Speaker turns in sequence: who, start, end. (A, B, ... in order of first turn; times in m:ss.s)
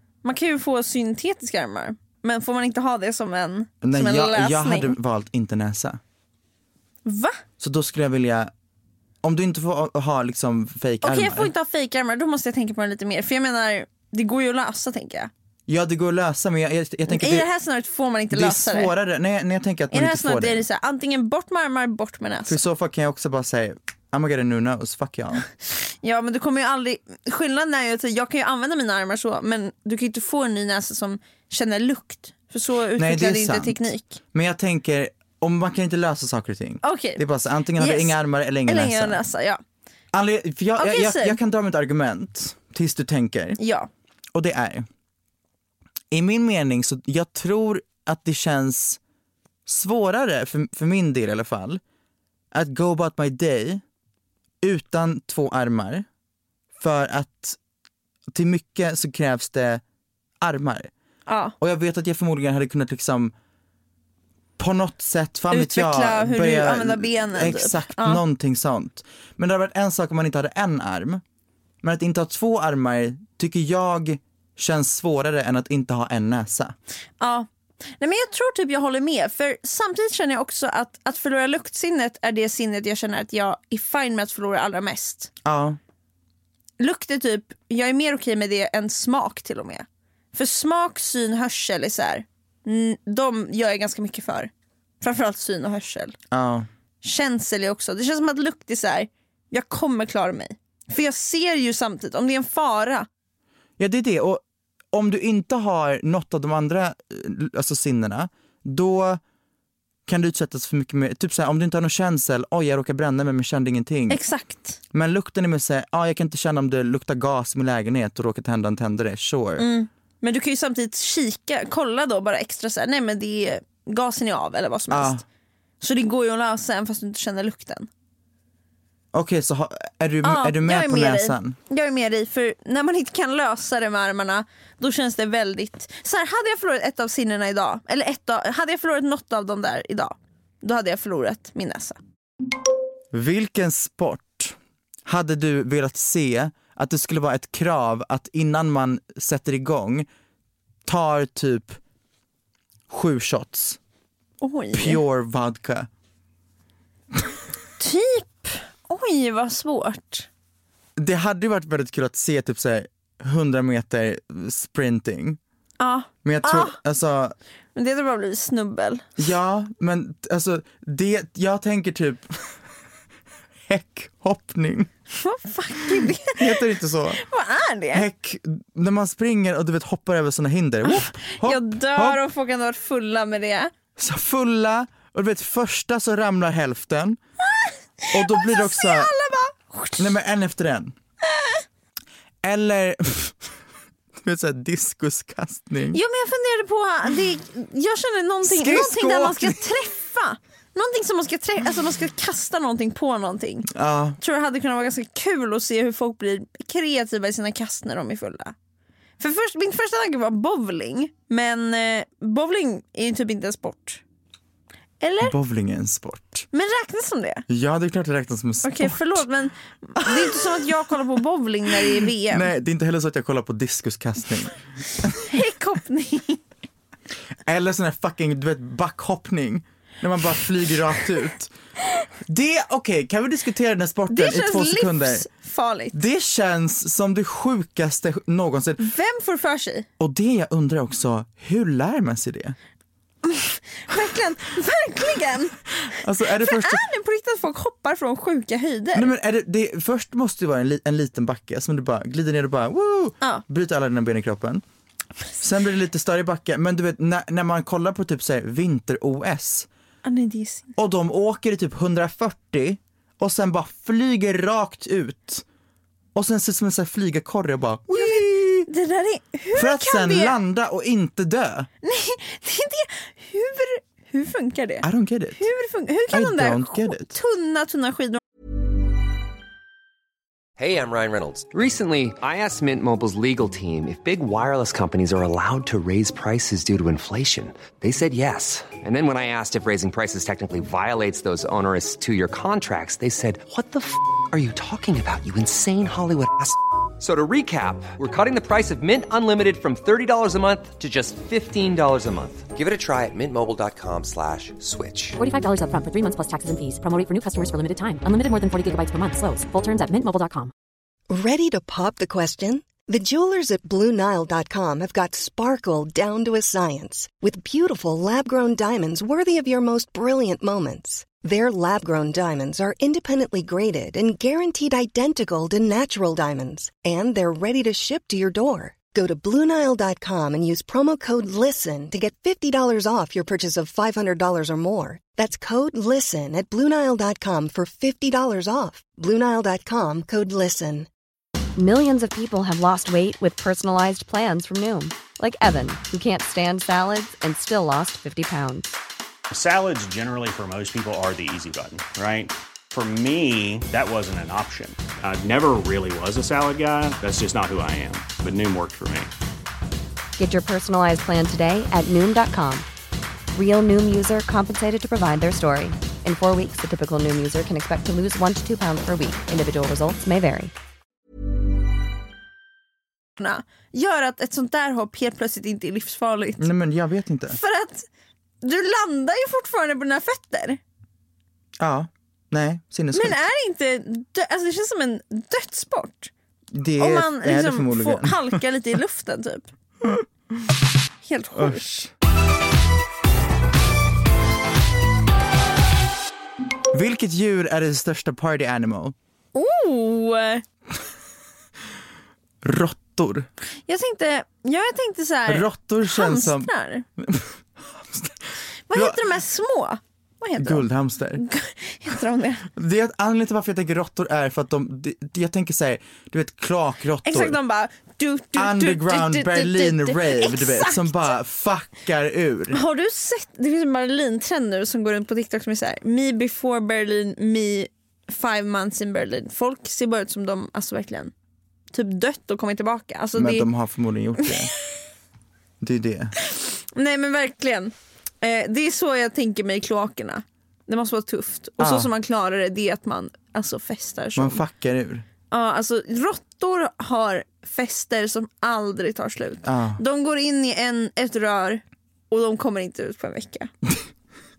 0:00.2-0:05.0 A
0:03.8-0:06.0 B
0:07.0-0:07.4 A
0:07.6-0:08.5 B
0:09.2-0:11.5 B
0:11.0-0:15.3 A
0:15.7-0:17.5 B
0:17.1-0:18.9 A
0:18.3-0:20.6 B
0:19.9-0:22.6 A
0:22.5-0:25.5 B
0:26.0-0:34.2 A
0:33.0-0:33.8 B
0:34.3-0:39.2 B
0:36.8-0:37.2 A
0:37.8-0:39.6 A
0:40.1-0:43.6 B
0:40.8-0:41.4 A
0:43.6-0:43.9 A
0:44.3-0:44.9 B
0:46.1-0:49.0 B
0:49.7-0:51.8 B
0:52.5-0:53.8 B
0:54.6-0:56.1 B
0:56.8-0:57.6 B
0:58.3-0:59.8 B
1:00.4-1:00.9 B
1:01.3-1:01.6 A
1:01.6-1:03.3 B
1:04.6-1:11.2 B
1:05.5-1:08.2 A
1:11.8-1:16.8 B
1:17.2-1:17.5 A
1:18.0-1:25.3 A
1:25.4-1:25.8 B
1:26.8-1:34.5 A
1:35.0-1:36.2 A
1:36.3-1:36.7 B
1:37.0-1:43.1 A
1:43.8-1:49.2 B
1:50.1-1:54.2 B
1:54.1-1:54.8 A
1:54.9-1:59.7 B
1:59.6-2:05.2 A
2:04.9-2:05.2 B
2:05.8-2:07.9 A
2:09.1-2:11.6 B
2:10.2-2:22.0 A
2:23.1-2:30.1 B
2:30.9-2:31.8 B
2:32.9-2:33.8 B
2:34.4-2:35.0 A
2:34.7-2:35.9 B
2:37.8-2:40.3 A
2:41.0-2:45.4 B
2:45.8-2:46.8 A
2:46.2-2:47.4 B
2:47.8-2:49.2 A
2:49.2-2:52.5 B
2:53.7-2:54.9 B
2:55.2-2:58.1 A
2:56.0-2:57.2 B
2:57.9-3:02.2 B
3:00.9-3:03.7 A
3:04.0-3:07.2 B
3:07.5-3:10.1 A
3:08.1-3:09.1 B
3:10.0-3:11.0 B
3:11.4-3:11.6 A
3:12.4-3:13.5 B
3:14.2-3:16.0 B
3:15.9-3:23.7 A
3:18.4-3:19.6 B
3:23.7-3:24.2 B
3:24.2-3:28.5 A
3:29.2-3:34.0 A
3:35.0-3:35.4 A
3:35.2-3:36.5 B
3:36.5-3:37.4 A
3:37.5-3:39.2 B
3:38.6-3:42.5 A
3:40.0-3:40.6 B
3:41.8-3:45.4 B
3:45.3-3:46.4 A
3:47.5-3:51.5 B
3:52.3-3:55.3 B
3:54.1-3:56.0 A
3:55.9-3:58.9 B
3:58.8-3:59.9 A
4:00.0-4:02.6 B
4:03.2-4:05.6 A
4:05.8-4:06.8 B
4:06.3-4:09.1 A
4:08.9-4:14.6 B
4:15.4-4:19.7 B
4:20.0-4:20.7 A
4:20.8-4:25.4 B
4:26.2-4:28.7 B
4:27.9-4:30.4 A
4:29.6-4:31.7 B
4:31.8-4:34.9 A
4:34.8-4:35.5 B
4:35.4-4:38.2 A
4:36.1-4:37.2 B
4:40.6-5:05.2 C
5:05.2-5:10.5 D
5:11.1-5:40.9 E
5:41.6-5:48.7 F
5:49.3-5:59.1 G
6:00.2-6:02.7 F
6:03.3-6:10.5 F
6:13.2-6:16.5 A
6:16.4-6:17.4 B
6:17.3-6:17.9 A
6:18.4-6:20.6 A
6:21.6-6:23.2 B
6:22.9-6:26.1 A
6:26.5-6:28.4 B
6:26.8-6:29.5 A
6:31.0-6:31.9 A
6:31.4-6:31.9 B
6:36.7-6:39.0 B
6:39.4-6:40.4 A
6:42.4-6:43.3 B
6:43.7-6:46.8 A
6:45.3-6:48.2 B
6:48.7-6:52.5 A
6:48.7-6:49.0 B
6:50.4-6:51.2 B
6:52.5-6:57.4 B
6:57.1-7:01.1 A
6:58.4-7:02.6 B
7:02.5-7:11.1 A
7:11.7-7:13.5 A
7:13.2-7:14.5 B
7:15.6-7:16.1 B
7:16.2-7:24.4 A
7:21.6-7:21.9 B
7:24.2-7:25.0 B
7:25.3-7:33.5 A
7:29.4-7:29.8 B